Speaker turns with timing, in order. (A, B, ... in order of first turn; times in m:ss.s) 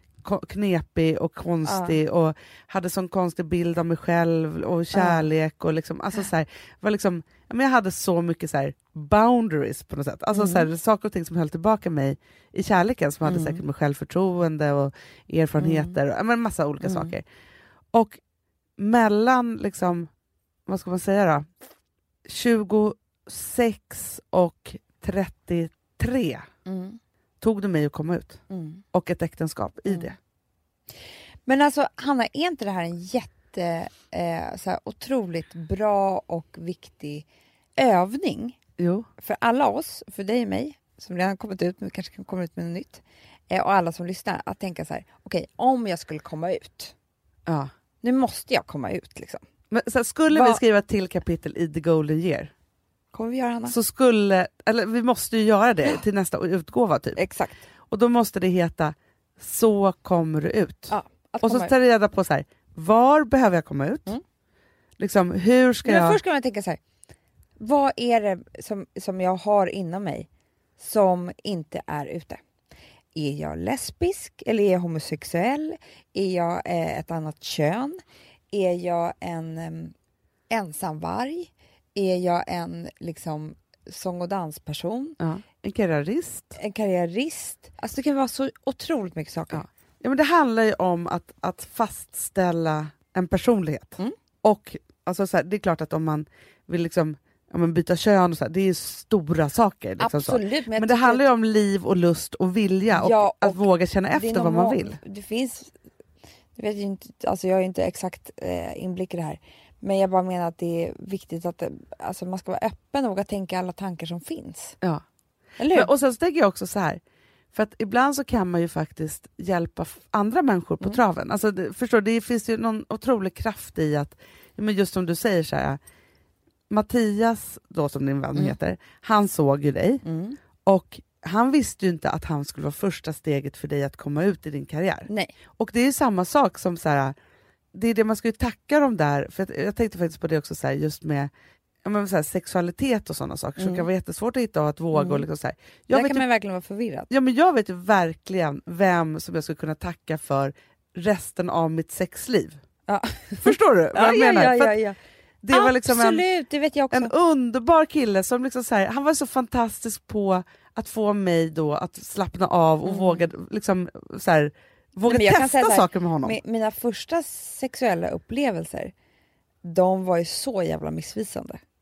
0:00.2-0:17.2 A
0:01.6-0:02.0 B
0:04.9-0:05.3 B
0:10.3-0:10.7 B
0:13.2-0:13.6 B
0:15.6-0:16.0 B
0:16.8-0:17.1 B
0:17.9-0:18.2 A
0:18.8-0:20.1 A
0:20.7-0:21.4 A
0:22.3-0:26.5 A
0:26.6-0:27.0 B
0:27.4-0:28.4 A
0:28.5-0:28.8 B
0:28.9-0:30.2 A
0:29.9-0:30.1 B
0:31.4-0:37.2 B
0:37.8-0:38.6 B
0:38.8-0:39.1 A
0:39.2-0:46.9 B
0:47.5-0:47.7 A
0:48.0-0:49.4 B
0:49.7-0:52.5 A
0:50.3-0:50.6 B
0:53.1-0:53.7 B
0:53.7-0:57.2 A
0:57.2-0:57.6 B
0:57.9-1:04.2 A
1:00.9-1:01.7 B
1:05.0-1:06.2 A
1:05.8-1:06.8 B
1:07.6-1:12.4 B
1:13.1-1:18.0 B
1:18.5-1:19.9 B
1:20.5-1:25.2 B
1:25.2-1:26.6 A
1:26.6-1:29.6 B
1:29.5-1:45.0 A
1:40.0-1:41.3 B
1:42.9-1:45.7 B
1:46.5-1:54.8 B
1:55.6-1:55.9 B
1:55.7-1:57.0 A
1:57.5-2:05.8 A
2:06.7-2:10.0 A
2:10.0-2:10.4 B
2:10.6-2:17.1 A
2:15.1-2:15.3 B
2:17.7-2:21.3 A
2:21.8-2:26.2 A
2:23.6-2:23.8 B
2:24.9-2:25.2 B
2:25.9-2:27.1 B
2:27.1-2:32.6 A
2:32.9-2:35.0 B
2:33.4-2:34.7 A
2:35.4-2:36.2 A
2:35.5-2:37.1 B
2:36.9-2:46.4 A
2:42.8-2:43.3 B
2:45.0-2:48.9 B
2:49.6-2:51.6 B